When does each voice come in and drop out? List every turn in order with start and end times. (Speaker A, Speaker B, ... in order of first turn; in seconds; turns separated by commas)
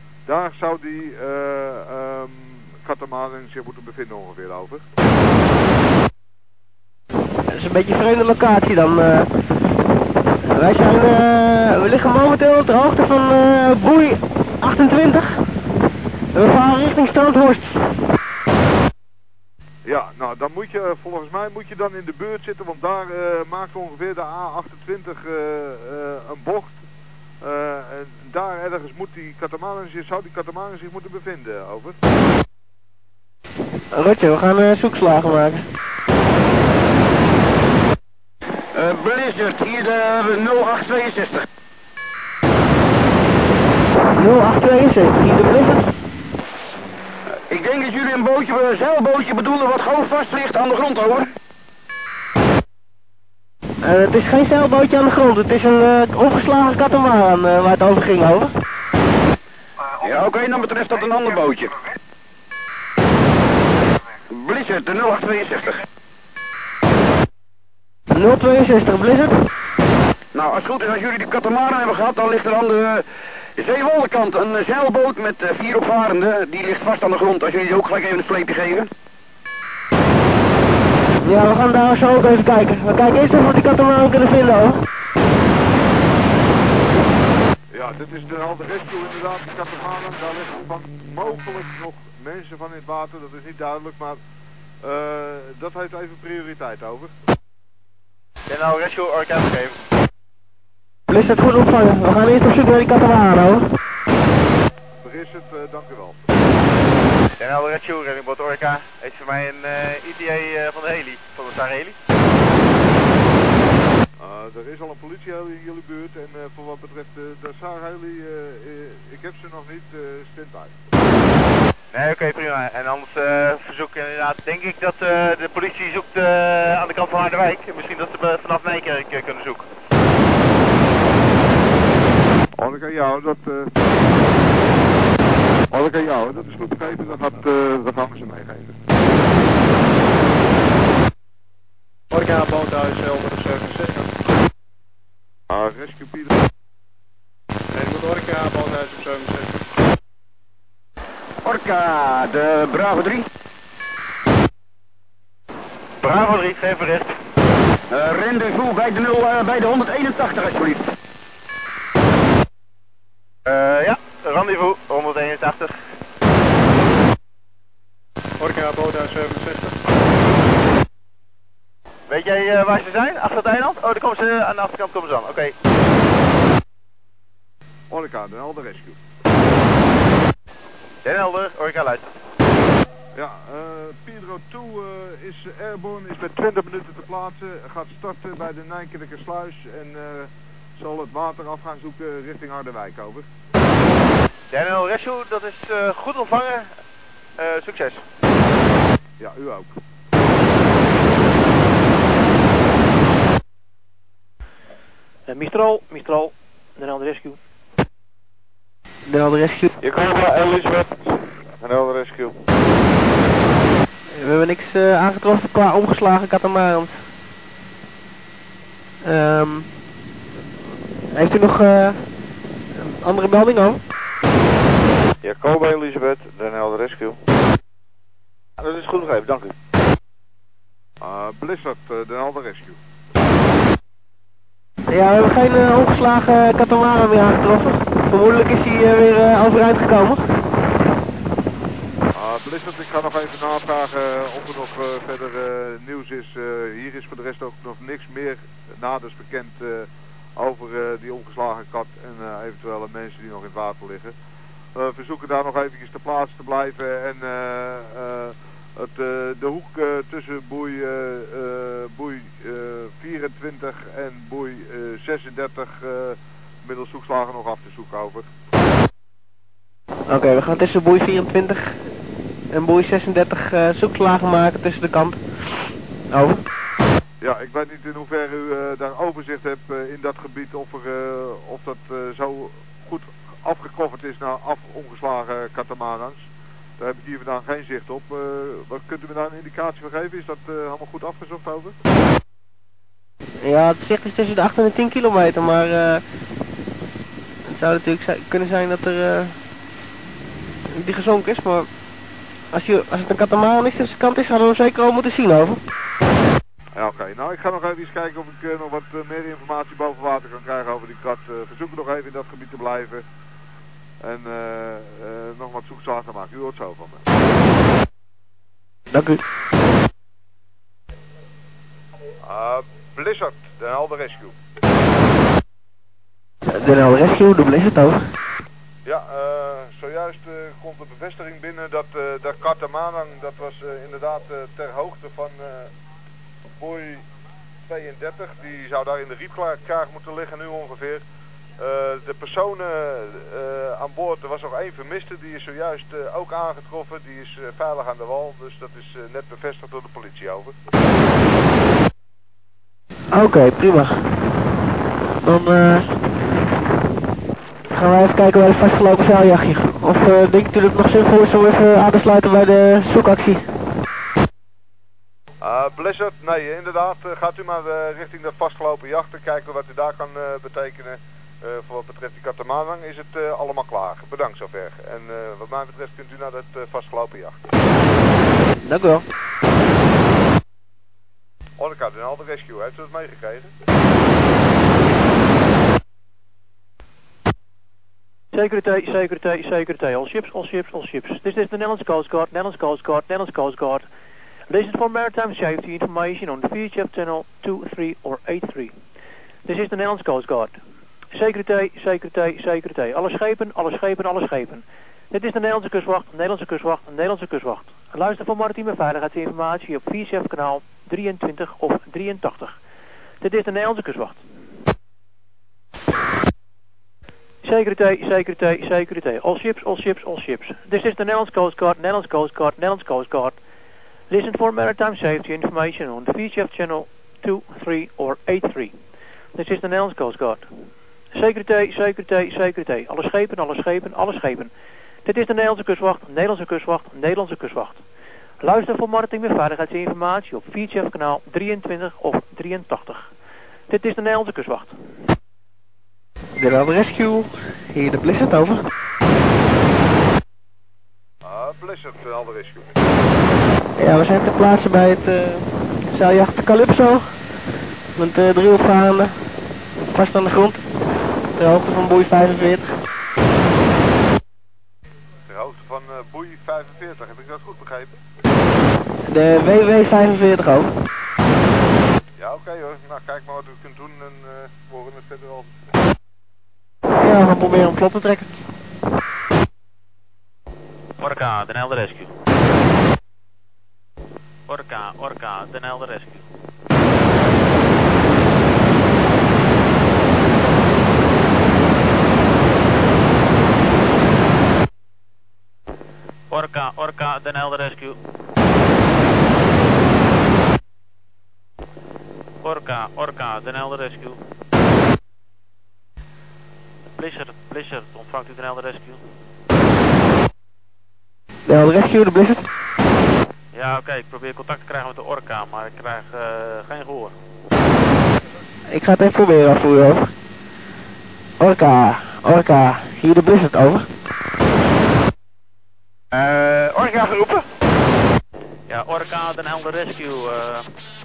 Speaker A: 0.2-4.8, Speaker B: 7.5-9.3, Speaker B: 10.5-15.4, Speaker B: 16.3-17.8, Speaker A: 19.8-26.8, Speaker A: 27.4-32.0, Speaker B: 33.9-35.6, Speaker C: 38.7-41.5, Speaker B: 44.1-45.9, Speaker C: 47.5-51.3, Speaker B: 53.8-58.5, Speaker C: 60.0-61.8, Speaker C: 64.3-65.8, Speaker B: 68.1-69.4, Speaker C: 70.3-73.0, Speaker C: 73.5-78.9, Speaker B: 81.2-84.8, Speaker A: 87.7-94.2, Speaker A: 94.8-97.1, Speaker D: 98.5-99.9, Speaker B: 101.1-103.7, Speaker A: 105.0-106.2, Speaker D: 107.4-112.0, Speaker A: 114.2-120.8, Speaker D: 121.9-129.6, Speaker A: 132.6-133.7, Speaker A: 135.7-138.8, Speaker E: 142.1-144.1, Speaker A: 145.5-146.4, Speaker E: 147.7-149.6, Speaker C: 151.4-153.2, Speaker D: 156.0-157.1, Speaker C: 157.9-160.9, Speaker D: 163.4-165.7, Speaker E: 168.4-169.8, Speaker D: 172.1-175.5, Speaker A: 177.9-179.0, Speaker D: 181.0-182.1, Speaker A: 183.1-193.2, Speaker D: 194.5-196.7, Speaker D: 197.4-198.0, Speaker A: 199.2-199.7, Speaker F: 205.3-207.4, Speaker B: 209.1-209.7, Speaker G: 209.8-212.3, Speaker B: 214.1-217.0, Speaker B: 219.0-219.7, Speaker B: 221.1-222.0, Speaker B: 222.8-223.8, Speaker G: 225.2-227.2, Speaker G: 228.6-229.5, Speaker A: 231.0-232.8, Speaker B: 234.9-240.2, Speaker A: 242.1-254.1, Speaker A: 254.7-268.3, Speaker B: 270.1-271.9, Speaker B: 272.5-276.4, Speaker A: 277.2-286.3, Speaker A: 286.8-291.8, Speaker B: 293.4-296.0, Speaker B: 297.5-299.4, Speaker B: 300.7-301.7, Speaker B: 302.5-305.6, Speaker A: 306.7-313.0, Speaker A: 314.0-317.1, Speaker B: 318.9-319.2, Speaker A: 322.2-324.4, Speaker B: 326.5-328.1, Speaker A: 328.8-335.7, Speaker A: 336.6-337.0, Speaker A: 337.6-341.0, Speaker A: 341.6-350.6, Speaker B: 353.1-354.1, Speaker B: 355.2-355.9, Speaker B: 357.7-363.5, Speaker A: 365.4-377.4, Speaker B: 378.6-379.0, Speaker A: 381.6-383.5, Speaker F: 388.3-393.9, Speaker F: 394.5-398.8, Speaker F: 399.4-400.6, Speaker F: 401.1-412.6, Speaker F: 413.2-414.2, Speaker F: 417.4-423.4, Speaker F: 424.1-428.7, Speaker F: 429.3-430.5, Speaker F: 431.1-434.5, Speaker F: 435.0-437.8, Speaker F: 438.4-443.1, Speaker F: 443.7-444.8, Speaker B: 446.4-448.6, Speaker A: 451.2-452.7, Speaker B: 453.8-457.1, Speaker B: 458.0-459.1, Speaker B: 459.9-460.6, Speaker B: 461.4-462.8, Speaker A: 465.3-468.0, Speaker B: 469.0-470.7, Speaker A: 472.2-475.6, Speaker B: 477.0-478.4, Speaker H: 481.0-482.1, Speaker H: 484.5-486.2, Speaker H: 496.3-498.0, Speaker H: 502.4-504.2, Speaker H: 506.9-509.0, Speaker B: 511.5-512.4, Speaker H: 513.5-517.1, Speaker B: 518.7-520.1, Speaker B: 521.4-523.9, Speaker D: 526.1-527.4, Speaker H: 528.7-530.7